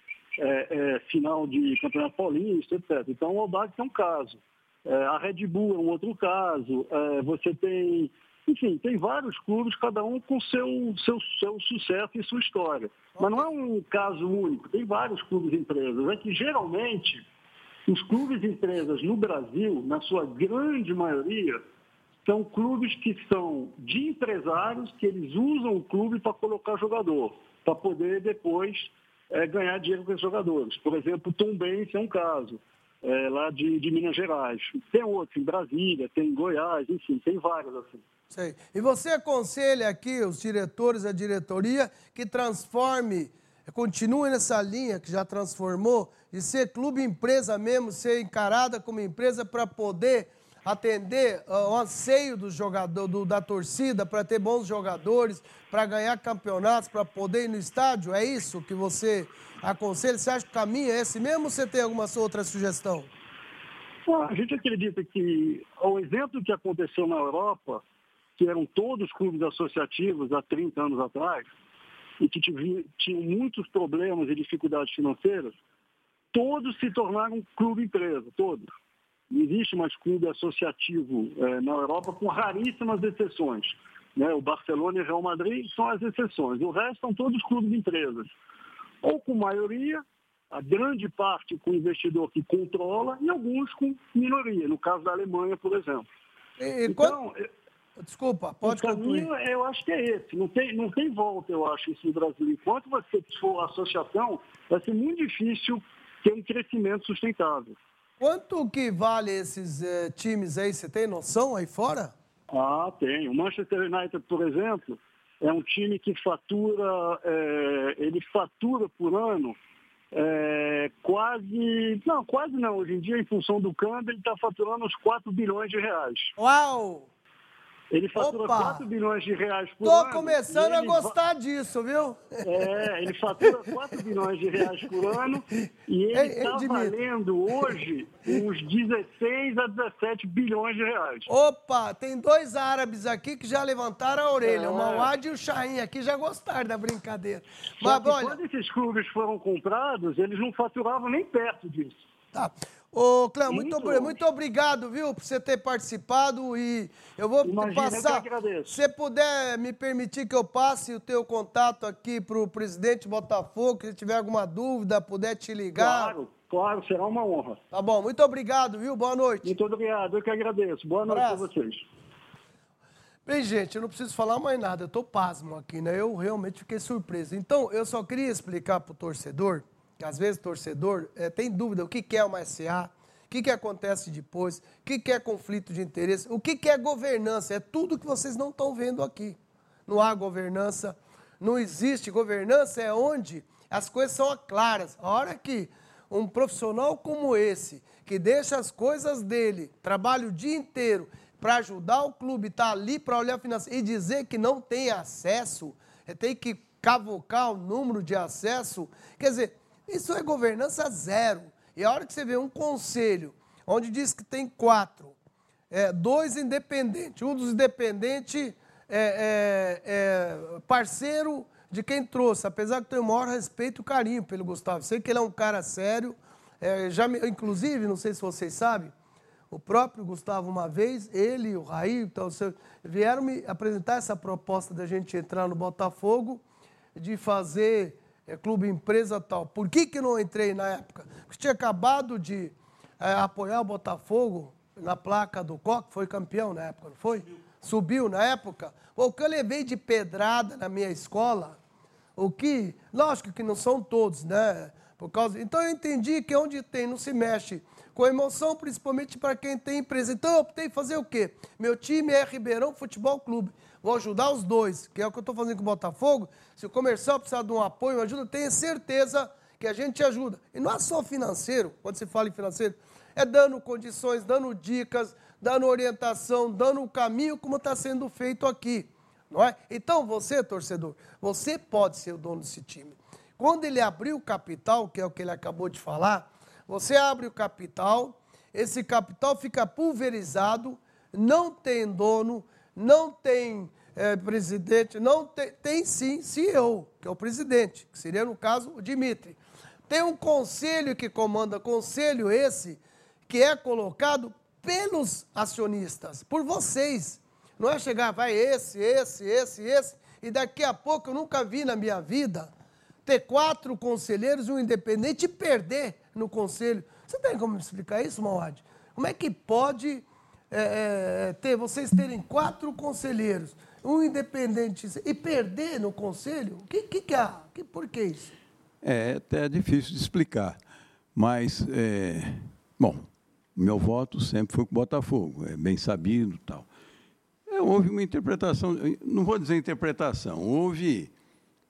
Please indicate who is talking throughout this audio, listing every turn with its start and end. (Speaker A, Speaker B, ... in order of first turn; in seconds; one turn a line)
Speaker A: 0.4-17.2
Speaker B: 13.1-13.5
Speaker A: 17.9-21.6
Speaker A: 22.2-38.0
Speaker B: 38.3-63.1
Speaker A: 64.1-67.8
Speaker A: 68.4-71.5
Speaker A: 72.2-75.5
Speaker A: 76.3-78.7
Speaker A: 79.3-88.3
Speaker A: 89.0-96.1
Speaker B: 96.6-97.2
Speaker A: 96.9-97.5
Speaker B: 98.0-99.3
Speaker A: 98.6-107.8
Speaker B: 108.2-112.1
Speaker A: 112.5-119.5
Speaker A: 120.1-126.3
Speaker B: 126.4-127.1
Speaker A: 127.9-131.1
Speaker B: 128.1-128.8
Speaker B: 129.8-132.7
Speaker A: 132.4-141.3
Speaker B: 136.1-137.0
Speaker B: 141.3-148.4
Speaker A: 144.4-145.1
Speaker A: 147.8-152.0
Speaker B: 152.3-166.1
Speaker A: 153.5-154.2
Speaker A: 157.4-158.8
Speaker A: 165.8-167.6
Speaker B: 167.7-169.5
Speaker A: 169.4-171.8
Speaker B: 171.1-171.5
Speaker B: 173.2-215.1
Speaker B: 215.7-228.9
Speaker B: 229.5-236.4
Speaker B: 236.9-251.6
Speaker B: 252.2-299.4
Speaker B: 299.9-312.5
Speaker B: 313.1-328.3
Speaker C: 328.8-330.6
Speaker C: 331.1-336.7
Speaker C: 337.5-341.1